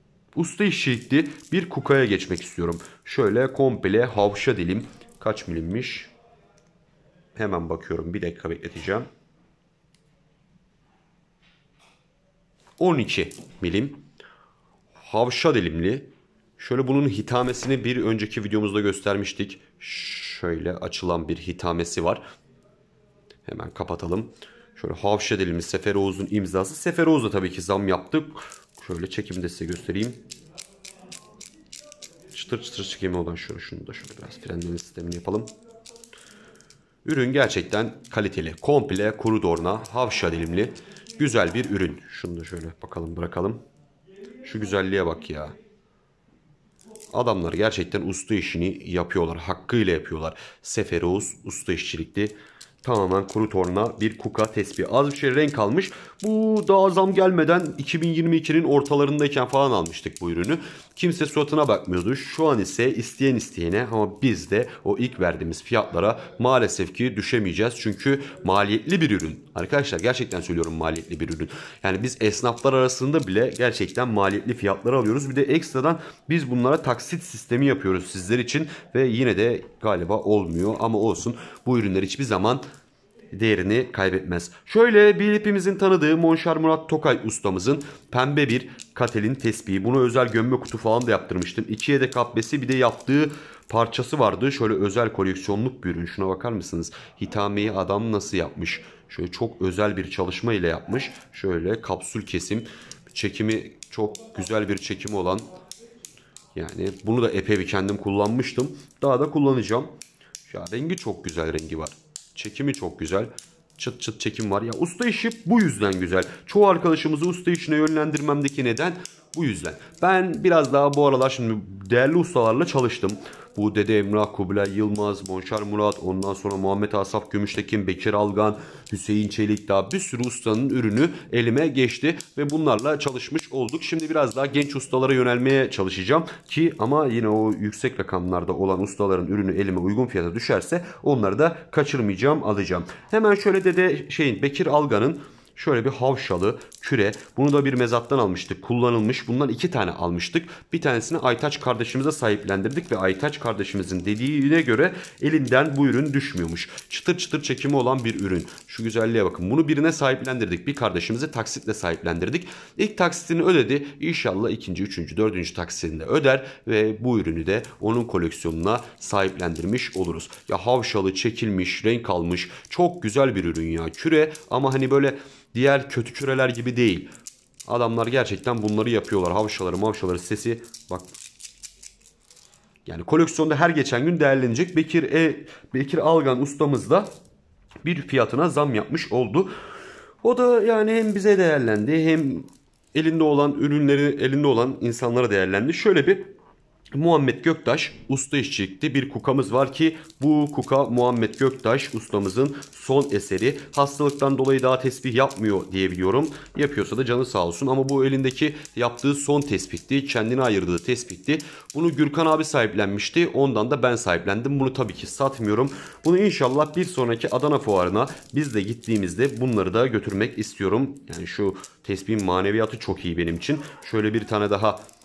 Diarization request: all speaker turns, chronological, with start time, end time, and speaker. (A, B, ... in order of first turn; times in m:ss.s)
0:00.3-0:06.1 A
0:07.4-0:09.1 A
0:12.8-0:14.0 A
0:15.0-0:22.2 A
0:23.5-0:30.2 A
0:32.3-0:35.5 A
0:37.0-0:43.6 A
0:44.4-0:45.5 A
0:47.1-1:22.6 A
1:23.3-1:45.5 A
1:46.5-1:49.9 A
1:50.5-2:57.1 A
2:57.6-3:01.1 A
3:02.8-3:07.1 A
3:07.8-3:09.5 A
3:10.2-3:16.3 A
3:16.9-3:44.8 A